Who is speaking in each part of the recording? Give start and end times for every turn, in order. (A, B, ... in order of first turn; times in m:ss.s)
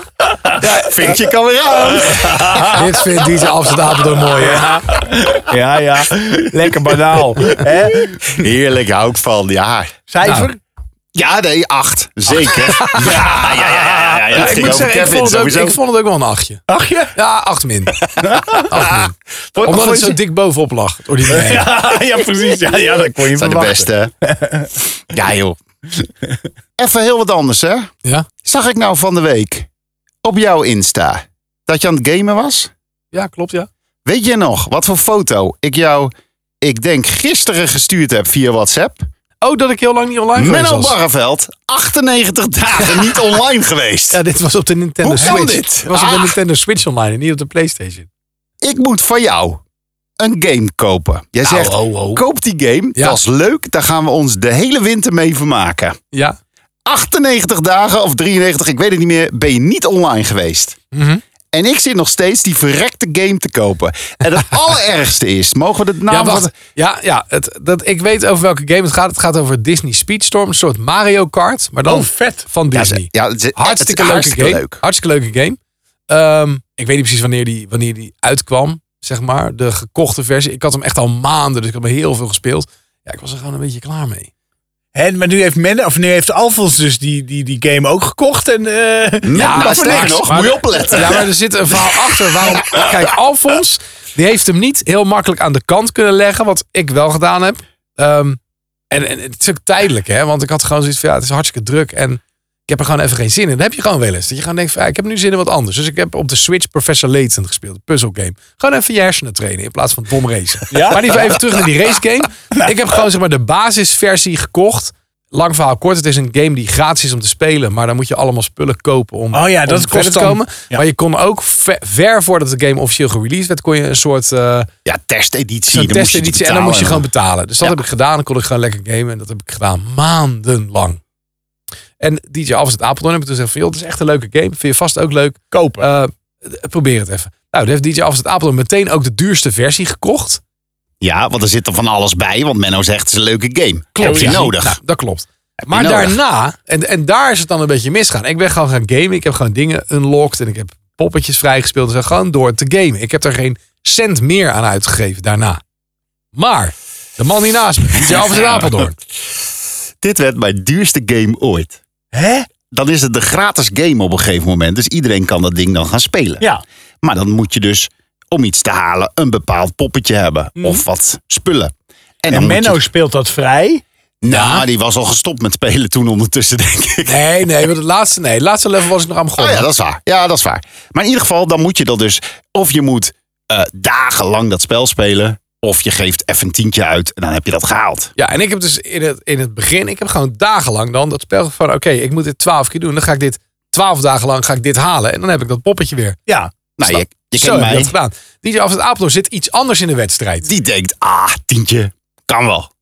0:00.3-0:00.6 A
0:00.6-0:01.0 B
0:00.6-0:02.8 C
0:02.0-0:02.8 A
0:02.6-0:04.8 B
0:04.4-0:08.4 A
0:08.2-0:09.9 C
0:10.1-0:10.6 A
0:10.2-0:10.5 B
0:11.1-0:15.8 C
0:12.4-0:14.5 A
0:12.7-0:13.3 B
0:14.3-0:16.6 B
0:16.7-0:17.1 A
0:17.1-0:18.0 B
0:18.2-0:18.6 A
0:18.6-0:21.7 B
0:18.7-0:19.0 C
0:19.5-0:20.2 C
0:21.3-0:24.7 A
0:23.4-0:24.1 C
0:25.1-0:25.6 C
0:26.8-0:27.9 C
0:28.4-0:29.7 C
0:30.2-0:32.7 C
0:33.1-0:33.7 B
0:34.1-0:39.0 C
0:39.4-0:41.0 B
0:40.4-0:44.2 C
0:44.1-0:48.1 B
0:45.0-0:46.4 C
0:48.6-0:49.6 C
0:50.2-0:56.0 C
0:51.4-0:52.2 B
0:56.9-1:00.8 C
1:00.9-1:01.2 B
1:01.5-1:06.5 C
1:06.1-1:15.6 B
1:11.9-1:12.5 A
1:12.7-1:14.8 C
1:16.1-1:24.3 B
1:25.0-1:30.8 A
1:29.2-1:31.3 C
1:29.3-1:38.4 B
1:32.5-1:32.9 C
1:38.9-2:04.7 B
1:50.7-1:51.0 A
1:59.3-2:00.8 A
2:04.8-2:07.0 C
2:05.7-2:11.0 B
2:12.0-2:20.4 B
2:15.5-2:15.9 A
2:21.0-2:24.8 C
2:24.0-2:35.6 B
2:24.0-2:24.5 A
2:25.7-2:26.2 C
2:36.3-2:38.9 B
2:38.0-2:38.9 C
2:40.0-2:41.8 C
2:42.1-2:42.5 A
2:42.7-2:46.4 C
2:47.0-2:52.8 C
2:50.6-2:50.8 A
2:52.3-2:53.8 A
2:54.2-2:57.2 C
2:54.3-2:54.6 B
2:57.0-2:59.7 B
2:59.4-3:08.1 C
3:08.2-3:16.2 B
3:16.3-3:16.5 A
3:16.8-3:17.9 C
3:16.8-3:20.5 B
3:20.4-3:22.7 C